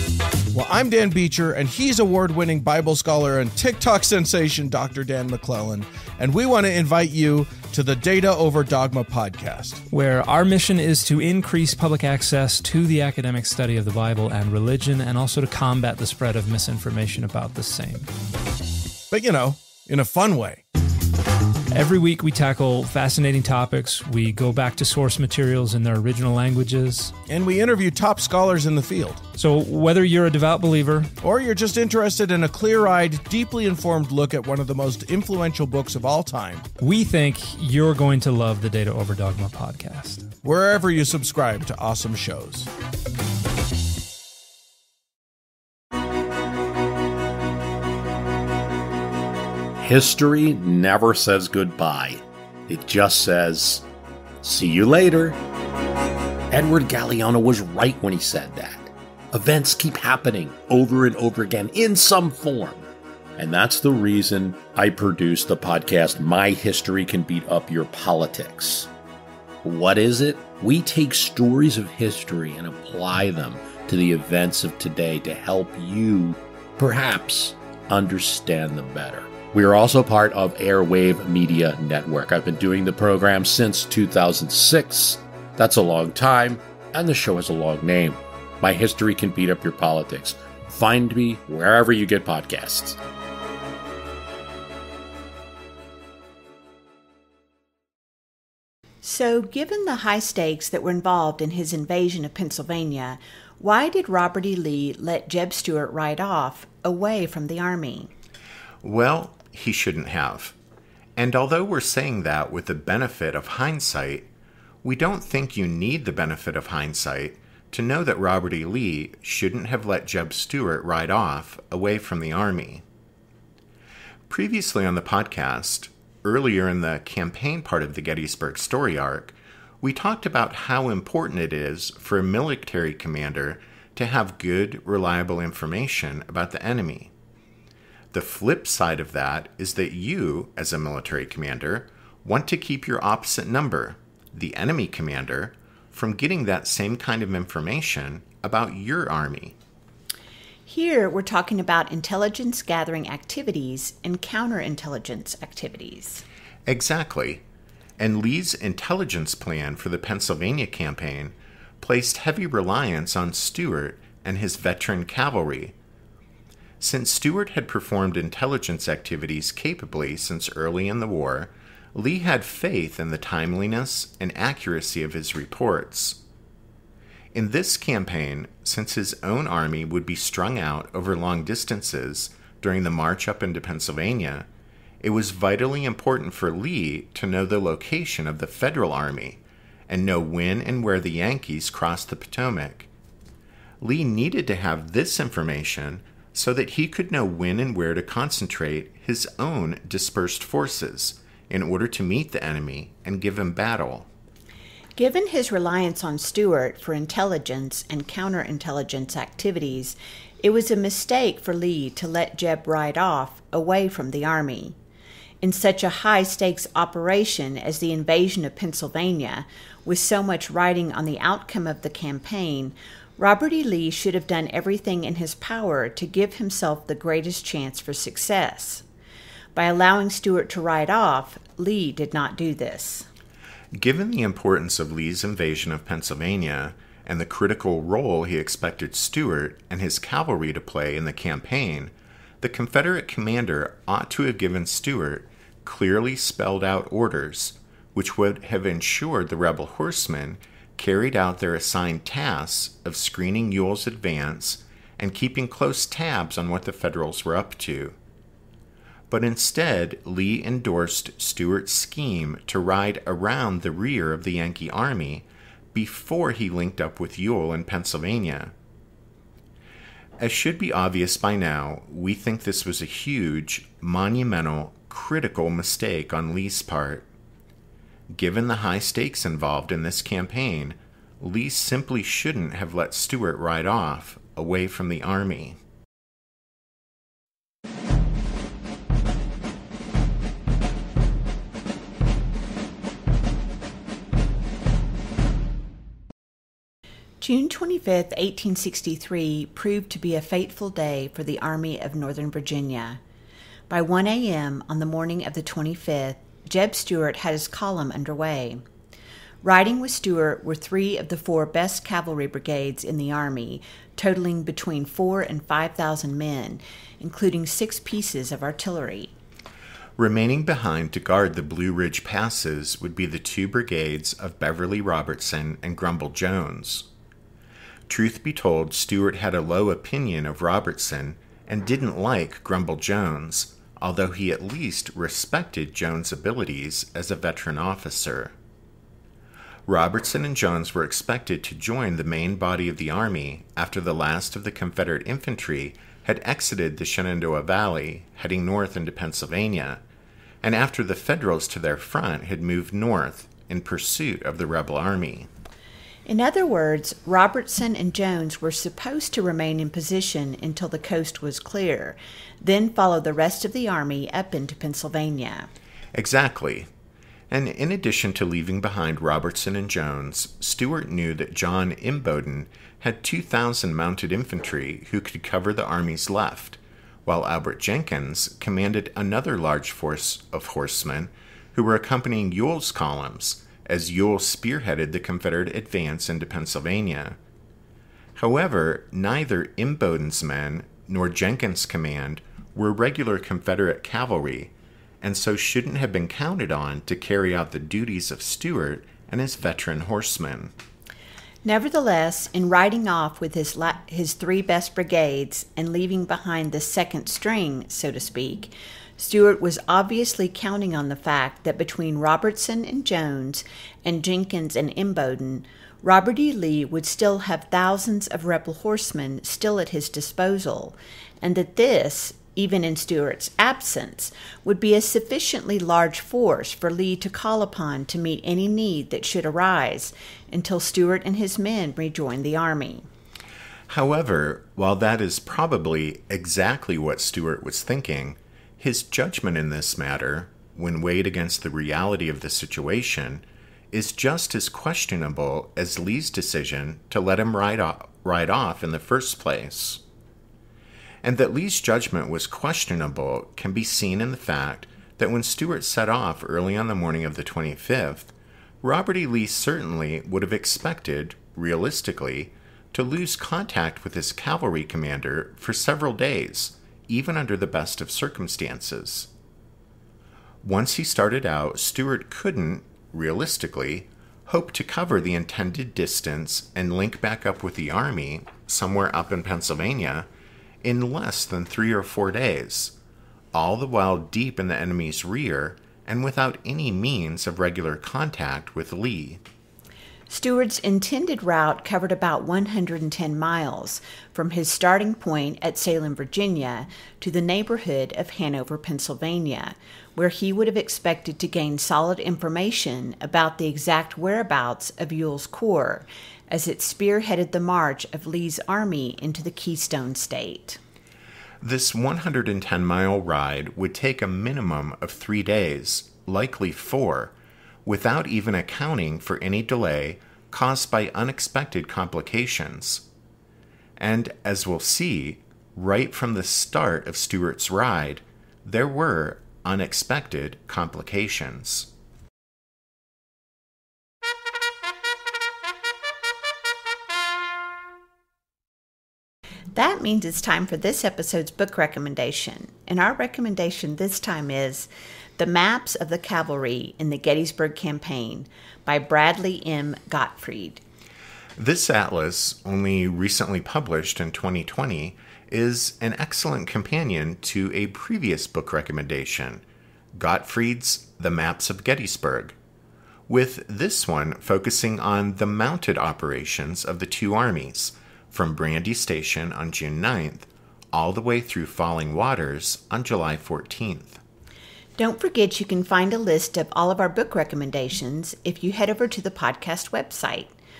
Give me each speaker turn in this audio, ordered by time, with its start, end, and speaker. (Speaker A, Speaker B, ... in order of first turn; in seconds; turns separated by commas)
Speaker A: 0.5-9.8, Speaker B: 9.9-18.1, Speaker A: 19.1-20.6, Speaker B: 21.7-27.1, Speaker A: 27.3-29.2, Speaker B: 29.4-31.1, Speaker A: 31.2-36.6, Speaker B: 36.8-40.3, Speaker A: 40.4-42.7, Speaker C: 49.8-53.9, Speaker C: 54.4-55.4, Speaker C: 56.5-68.9, Speaker C: 69.6-93.0, Speaker D: 99.0-108.1, Speaker E: 108.8-110.5, Speaker E: 111.2-114.3, Speaker E: 114.8-122.8, Speaker E: 124.3-137.1, Speaker E: 138.1-149.6, Speaker D: 150.7-156.2, Speaker E: 156.7-157.4, Speaker E: 158.0-165.7, Speaker E: 166.8-176.2, Speaker E: 177.3-184.5, Speaker E: 185.0-192.9, Speaker E: 193.8-204.1, Speaker D: 204.9-214.8, Speaker D: 215.4-228.8, Speaker D: 229.5-233.1, Speaker E: 233.7-257.9, Speaker E: 259.1-268.5, Speaker E: 270.2-277.1, Speaker E: 278.1-285.6, Speaker D: 297.2-303.0, Speaker D: 303.7-308.6, Speaker D: 309.4-319.1, Speaker E: 320.0-326.9, Speaker E: 327.9-338.3, Speaker E: 339.7-349.8, Speaker E: 350.4-355.3, Speaker D: 356.1-365.5, Speaker E: 365.9-366.7, Speaker E: 367.3-387.2, Speaker E: 388.1-400.5, Speaker D: 401.4-432.9, Speaker E: 433.7-449.8, Speaker E: 451.0-469.1, Speaker E: 470.4-480.1, Speaker E: 480.6-482.7, Speaker E: 483.3-489.2, Speaker D: 490.1-510.6, Speaker E: 511.4-517.1, Speaker E: 517.6-522.8, Speaker E: 523.8-531.7, Speaker D: 539.5-550.6, Speaker E: 551.4-559.4, Speaker E: 559.9-562.3, Speaker E: 563.1-574.0, Speaker D: 574.8-580.3